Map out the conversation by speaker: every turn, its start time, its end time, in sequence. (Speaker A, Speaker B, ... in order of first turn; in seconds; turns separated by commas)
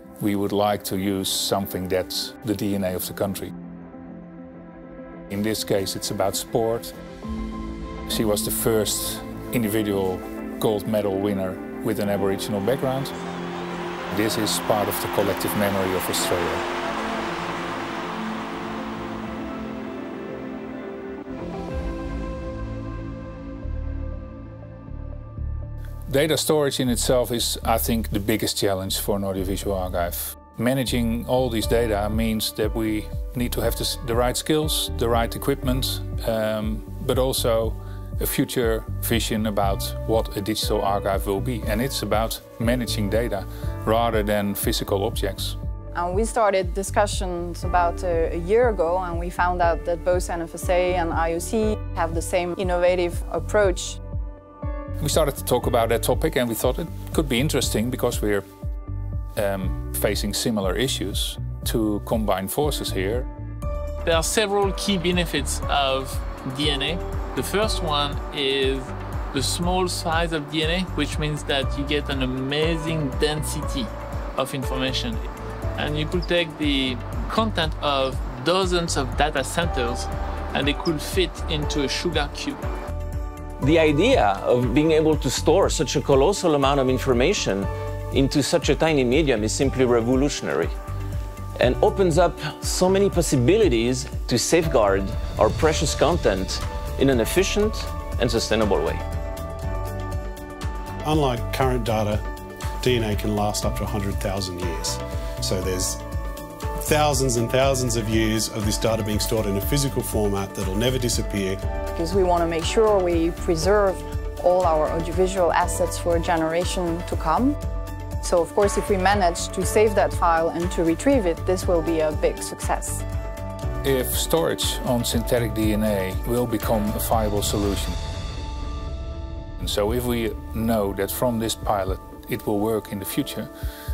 Speaker A: 0.2-3.5, Speaker A: 5.3-7.0, Speaker A: 8.1-13.2, Speaker A: 14.1-16.7, Speaker A: 26.1-45.6, Speaker B: 45.9-54.0, Speaker A: 55.0-58.5, Speaker A: 59.4-63.3, Speaker C: 64.0-82.7, Speaker D: 83.6-90.7, Speaker D: 91.6-99.0, Speaker E: 101.0-102.2, Speaker E: 102.8-106.0, Speaker E: 106.8-111.6, Speaker B: 111.9-117.6, Speaker B: 118.2-123.0, Speaker A: 123.8-128.0, Speaker A: 129.6-133.5